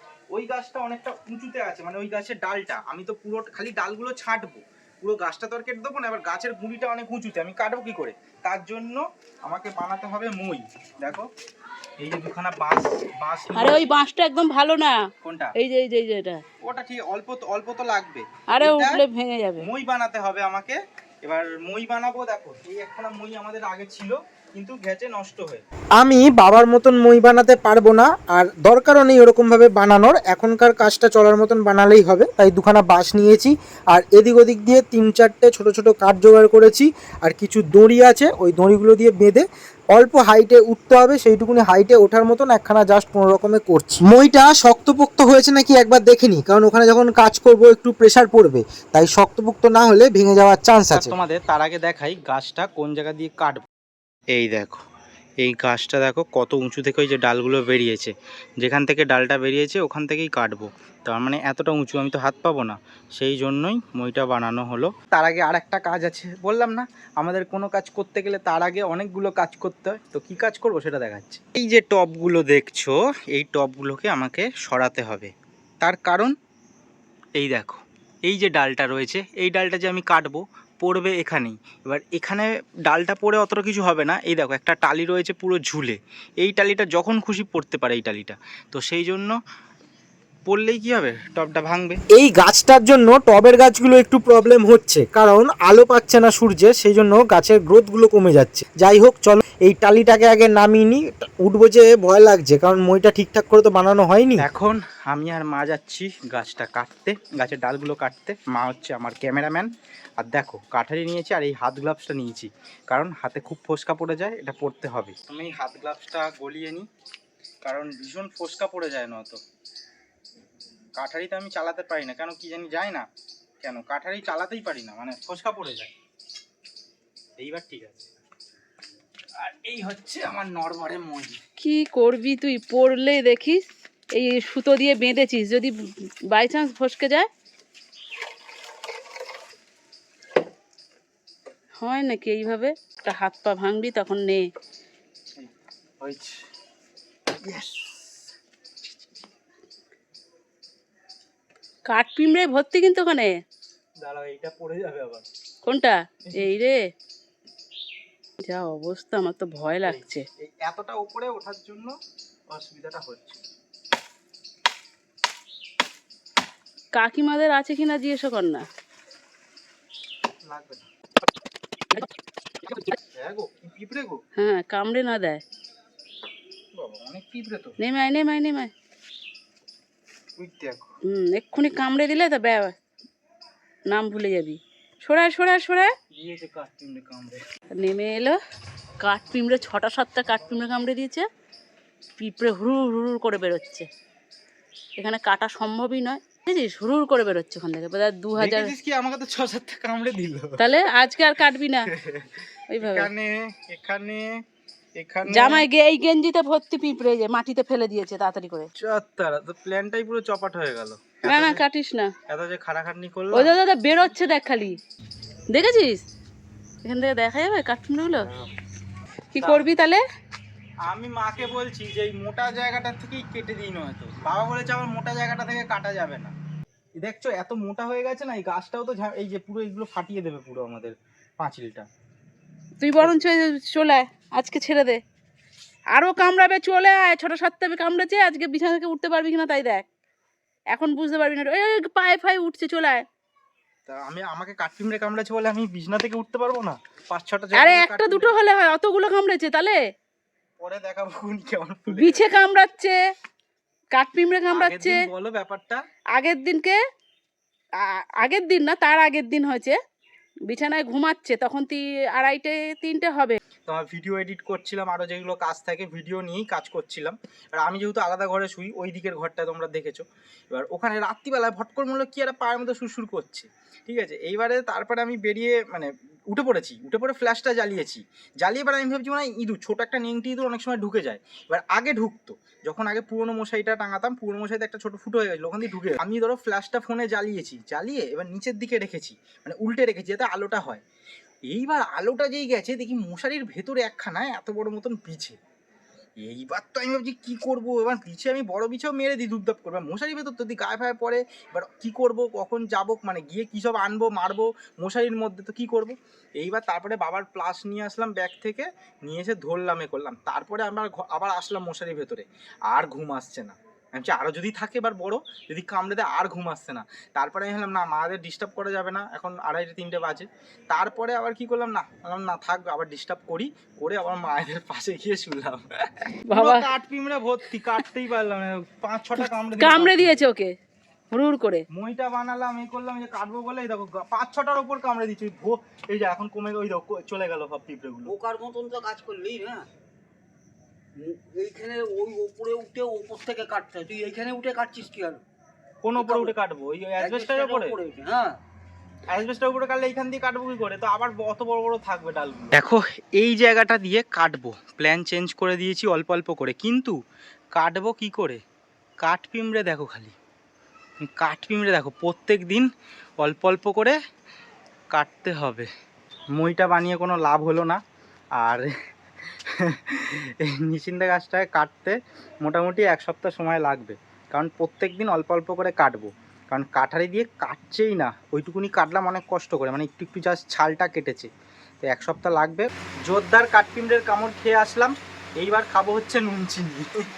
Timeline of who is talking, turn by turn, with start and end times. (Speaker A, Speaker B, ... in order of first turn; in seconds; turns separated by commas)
Speaker A: 0.3-11.3, Speaker A: 12.0-13.8, Speaker B: 13.5-15.0, Speaker A: 15.2-15.5, Speaker B: 15.6-16.4, Speaker A: 16.6-19.0, Speaker B: 18.5-19.6, Speaker A: 19.6-25.6, Speaker C: 26.0-51.1, Speaker A: 50.9-53.6, Speaker A: 54.3-54.8, Speaker A: 55.4-76.3, Speaker A: 77.3-89.4, Speaker A: 90.5-92.0, Speaker C: 92.1-104.5, Speaker A: 104.4-116.9, Speaker A: 117.6-119.4, Speaker A: 121.0-123.1, Speaker A: 123.6-125.9, Speaker A: 127.4-128.1, Speaker A: 129.4-131.4, Speaker B: 131.6-133.6, Speaker B: 134.1-135.8, Speaker B: 136.3-137.3, Speaker B: 141.8-144.4, Speaker A: 145.4-146.4, Speaker A: 147.4-148.3, Speaker B: 151.9-153.3, Speaker A: 154.0-155.2, Speaker B: 155.7-156.8, Speaker B: 158.4-160.2, Speaker A: 159.7-161.9, Speaker A: 162.5-163.4, Speaker B: 166.9-168.6, Speaker A: 170.5-170.9, Speaker A: 173.1-174.2, Speaker B: 174.4-175.4, Speaker A: 176.7-177.8, Speaker B: 177.8-178.7, Speaker A: 180.4-180.9, Speaker B: 181.1-182.8, Speaker B: 183.9-185.9, Speaker A: 186.1-187.4, Speaker B: 187.8-188.4, Speaker B: 189.0-191.2, Speaker B: 192.2-193.9, Speaker B: 195.0-198.7, Speaker A: 198.4-200.7, Speaker B: 200.6-201.9, Speaker A: 201.9-204.3, Speaker B: 202.7-203.1, Speaker A: 205.0-205.7, Speaker B: 205.3-208.7, Speaker A: 208.8-211.6, Speaker B: 211.2-212.1, Speaker A: 212.3-213.6, Speaker B: 213.3-214.8, Speaker B: 215.5-216.0, Speaker B: 216.8-218.4, Speaker B: 219.3-220.0, Speaker A: 219.4-219.7, Speaker A: 220.8-226.3, Speaker A: 227.0-231.9, Speaker B: 232.8-235.0, Speaker B: 235.9-239.8, Speaker B: 240.7-243.1, Speaker A: 243.9-248.4, Speaker B: 247.5-249.8, Speaker A: 250.6-252.3, Speaker B: 251.9-253.0, Speaker B: 253.9-255.0, Speaker A: 254.5-255.8, Speaker B: 256.1-256.8, Speaker B: 257.8-259.8, Speaker B: 260.5-263.4, Speaker A: 263.7-290.8, Speaker A: 291.5-295.4, Speaker A: 296.2-330.2, Speaker B: 326.3-326.7, Speaker B: 329.6-330.5, Speaker B: 331.1-331.6, Speaker A: 331.7-338.1, Speaker D: 338.1-339.7, Speaker D: 341.0-345.2, Speaker A: 345.8-347.8, Speaker D: 346.0-346.3, Speaker D: 347.0-348.4, Speaker A: 349.1-357.0, Speaker A: 357.6-358.4, Speaker A: 359.0-360.1, Speaker A: 361.0-362.7, Speaker A: 363.2-364.0, Speaker A: 364.9-365.7, Speaker A: 366.4-367.8, Speaker A: 368.4-368.7, Speaker A: 369.5-381.3, Speaker A: 381.8-386.9